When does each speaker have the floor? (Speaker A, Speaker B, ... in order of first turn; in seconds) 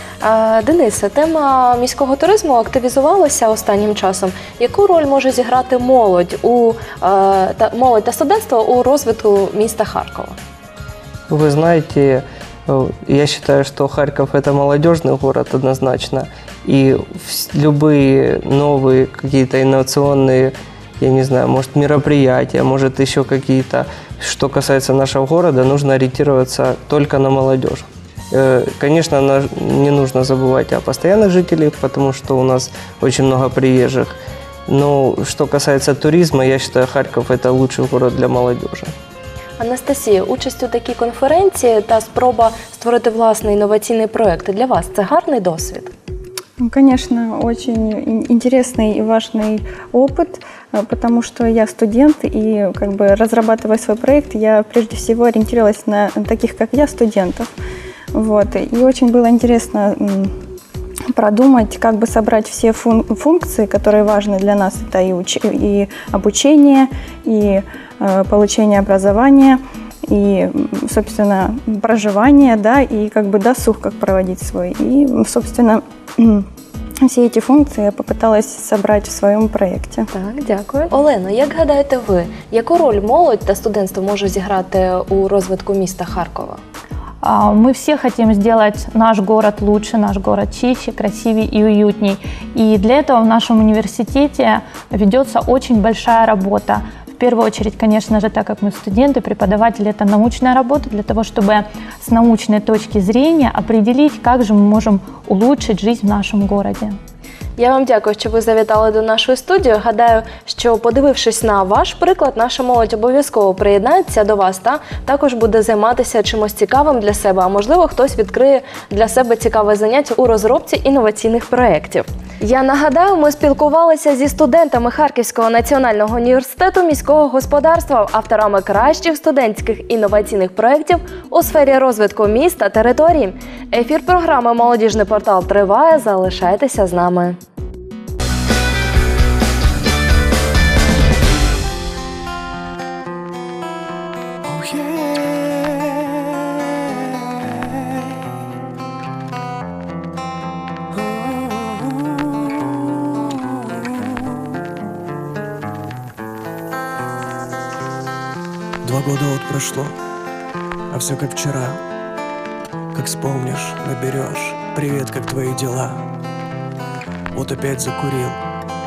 Speaker A: 0.2-10.4, 39.6-45.9, 80.1-86.6, 107.6-137.4
Speaker B: 11.3-38.9
Speaker C: 46.6-57.5, 58.1-60.3, 61.1-76.4, 77.0-80.1
Speaker D: 87.2-107.0
Speaker E: 144.4-146.2, 150.9-152.1, 158.8-159.9, 160.9-161.8, 162.9-166.1, 167.3-168.4